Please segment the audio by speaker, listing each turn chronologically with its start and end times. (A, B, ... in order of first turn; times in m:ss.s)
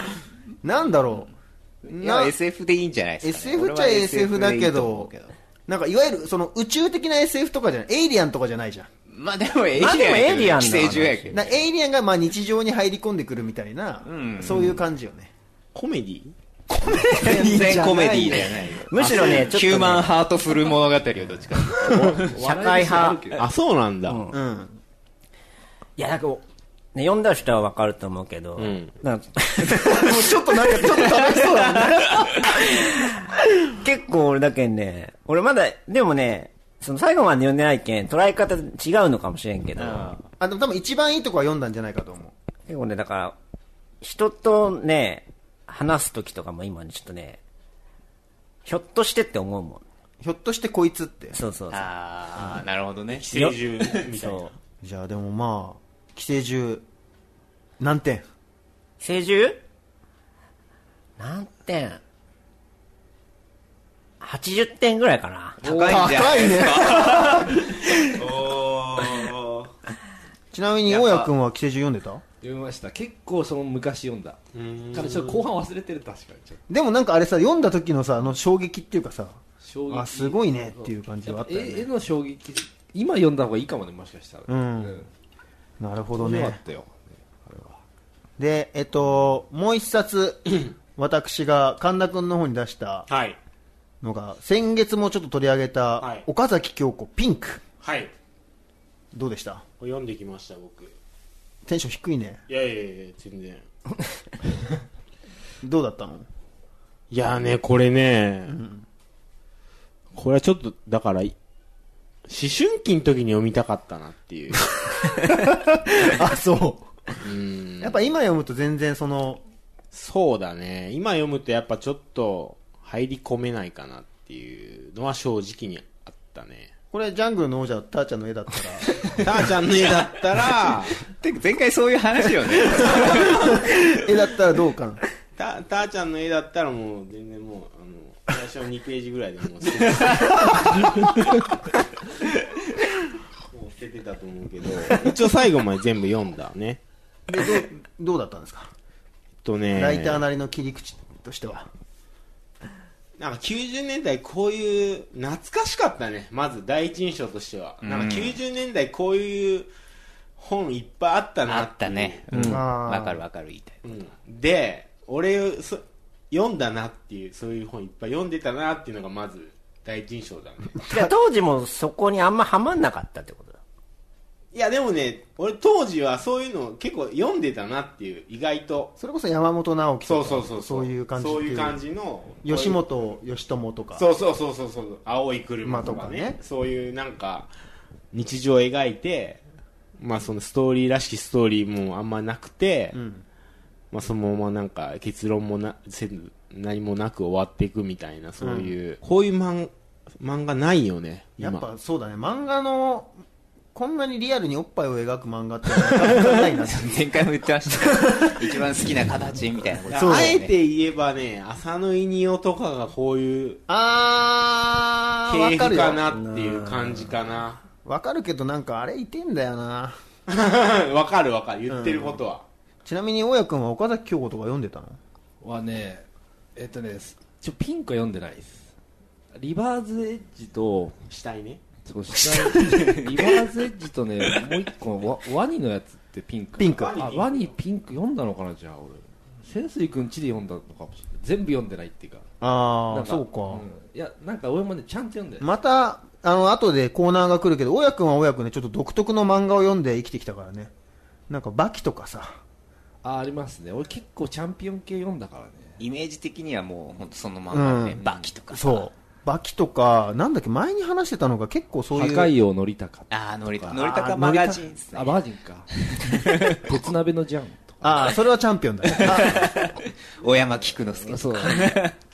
0:00.6-0:01.3 A
0:01.8-0:05.3 B
0:01.9-0:02.3 A
0:03.2-0:05.1 A
0:05.7-0:08.9 A
0:09.1-0:11.4 B
0:09.8-0:11.4 C
0:11.3-0:15.3 A
0:14.0-0:14.8 B
0:15.7-0:16.3 D
0:16.7-0:18.7 A
0:17.2-0:22.3 B
0:18.9-0:20.2 C
0:22.0-0:23.5 E
0:22.4-0:23.2 C
0:23.4-0:24.2 D
0:24.1-0:24.4 C
0:24.3-0:24.8 A
0:26.0-0:26.4 C
0:27.0-0:30.1 C
0:28.6-0:28.9 D
0:29.6-0:32.4 A
0:32.4-0:40.2 C
0:39.8-0:40.2 B
0:40.4-0:42.3 A
0:42.7-0:43.4 C
0:44.0-0:47.4 C
0:48.6-0:49.8 C
0:50.2-0:51.4 A
0:51.3-0:52.6 C
0:51.7-0:53.2 B
0:53.1-0:54.5 D
0:53.3-0:53.6 C
0:54.1-0:54.5 C
0:54.8-0:56.8 A
0:57.8-0:58.2 A
0:59.0-0:59.6 C
1:01.2-1:02.0 C
1:04.2-1:05.6 C
1:05.6-1:06.5 E
1:05.6-1:09.7 B
1:05.8-1:07.8 A
1:10.5-1:12.2 A
1:10.9-1:11.3 B
1:12.4-1:14.4 E
1:14.5-1:15.4 D
1:14.9-1:16.6 E
1:16.7-1:21.9 A
1:19.6-1:25.1 E
1:24.5-1:25.0 A
1:25.8-1:26.6 A
1:26.1-1:27.8 E
1:28.4-1:33.1 A
1:33.1-1:33.4 D
1:34.0-1:37.6 A
1:36.0-1:36.2 D
1:37.8-1:38.1 D
1:39.1-1:39.6 A
1:39.8-1:41.0 D
1:41.6-1:42.4 A
1:42.5-1:43.6 D
1:45.6-1:46.3 A
1:47.1-1:48.6 D
1:48.5-1:48.8 A
1:50.1-1:51.4 D
1:52.3-1:54.6 D
1:54.8-1:57.2 A
1:57.2-1:58.0 D
1:57.8-1:59.4 A
1:59.9-2:06.7 D
2:06.9-2:08.9 A
2:09.2-2:11.1 D
2:11.2-2:13.9 B
2:12.8-2:15.0 A
2:15.4-2:21.4 D
2:23.5-2:26.8 D
2:27.3-2:28.7 A
2:29.4-2:30.2 D
2:29.7-2:31.7 A
2:33.2-2:39.7 D
2:37.8-2:38.4 B
2:40.4-2:42.2 D
2:41.5-2:43.8 B
2:42.3-2:43.2 A
2:43.8-2:50.8 D
2:50.8-2:51.1 A
2:50.9-2:53.6 C
2:54.5-2:58.9 D
2:59.0-3:01.8 A
3:00.0-3:02.8 D
3:02.4-3:04.0 A
3:04.0-3:07.5 D
3:05.6-3:06.4 A
3:08.1-3:09.4 D
3:10.0-3:13.0 D
3:12.9-3:13.2 A
3:13.9-3:21.7 D
3:18.4-3:18.8 A
3:21.4-3:23.1 A
3:23.7-3:27.0 A
3:26.0-3:26.4 D
3:26.7-3:30.5 B
3:27.7-3:28.4 A
3:29.9-3:33.6 D
3:29.9-3:30.4 A
3:33.7-3:36.0 A
3:35.3-3:37.6 D
3:36.1-3:37.2 C
3:37.8-3:40.0 A
3:40.3-3:42.4 D
3:41.7-3:42.2 A
3:42.8-3:45.0 A
3:45.4-3:46.0 E
3:46.6-3:48.7 E
3:49.3-3:51.0 E
3:51.1-3:51.6 D
3:51.9-4:02.3 E
3:52.2-3:53.1 A
3:56.6-3:57.0 A
3:56.8-3:57.5 D
4:02.4-4:03.7 A
4:02.9-4:05.5 E
4:05.4-4:10.7 A
4:11.3-4:12.4 A
4:13.0-4:15.8 E
4:15.8-4:18.9 B
4:17.5-4:22.3 A
4:21.9-4:23.1 E
4:23.1-4:25.2 B
4:23.7-4:24.6 A
4:24.9-4:28.1 E
4:26.0-4:26.8 B
4:27.8-4:29.5 A
4:29.0-4:32.0 B
4:31.0-4:31.8 E